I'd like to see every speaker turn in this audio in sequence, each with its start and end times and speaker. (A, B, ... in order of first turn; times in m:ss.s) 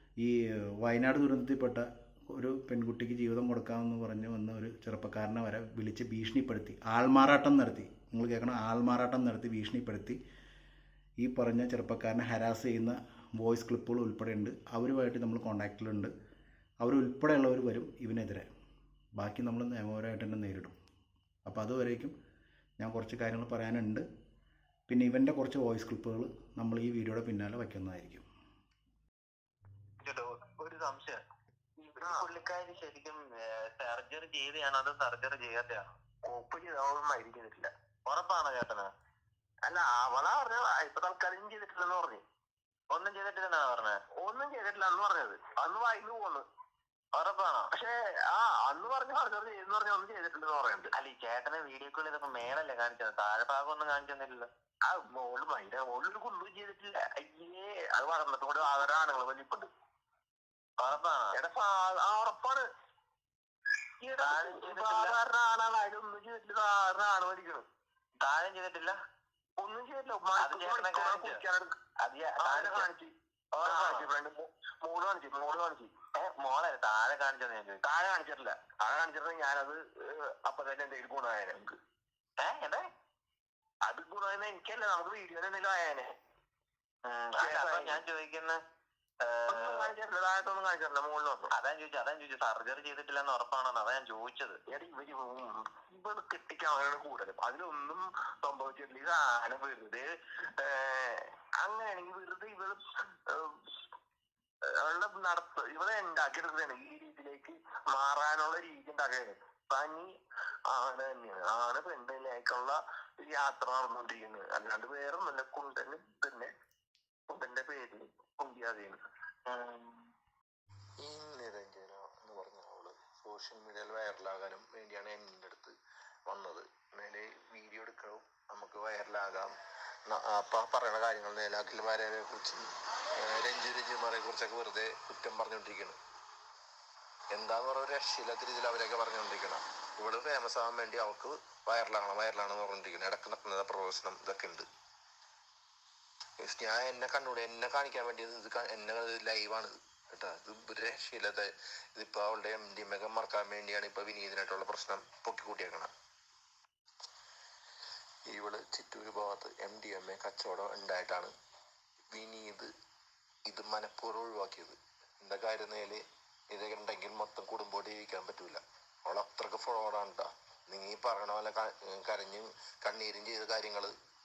0:00.2-0:10.2 A
0:11.2-0:16.1 A
0:16.8-0:18.5 A
0:19.2-0:20.7 A
0:21.4-0:22.1 A
0:22.8-0:24.0 A
0:24.9-0:28.2 A
0:30.0-0:31.2 B
0:31.8-0:35.9 B
0:32.0-0:32.3 C
0:36.2-0:37.7 C
0:38.0-0:38.9 B
0:39.6-0:42.2 C
0:42.9-0:44.0 B
0:44.2-0:46.4 C
0:47.1-0:47.7 B
0:47.7-0:50.9 C
0:50.9-0:54.5 B
0:54.8-0:59.7 C
1:00.8-1:01.4 B
1:01.3-1:02.7 C
1:04.0-1:07.6 C
1:04.2-1:05.2 B
1:08.2-1:09.0 B
1:09.6-1:11.8 C
1:10.4-1:11.4 B
1:12.0-1:12.9 B
1:12.4-1:15.9 C
1:13.6-1:14.1 B
1:16.1-1:17.8 B
1:17.8-1:21.8 C
1:22.4-1:22.8 B
1:23.8-1:26.1 C
1:27.1-1:28.6 B
1:27.4-1:28.0 C
1:29.2-1:29.9 B
1:29.5-1:31.5 C
1:31.5-1:34.6 B
1:34.7-1:43.7 C
1:44.6-1:50.1 C
1:50.7-1:56.5 C
1:57.3-1:59.0 C
2:01.0-2:05.8 D
2:06.3-2:09.5 D
2:10.1-2:16.0 D
2:17.3-2:24.6 D
2:26.4-2:35.9 D
2:38.3-2:41.3 D
2:42.1-2:42.7 D
2:43.5-2:53.9 D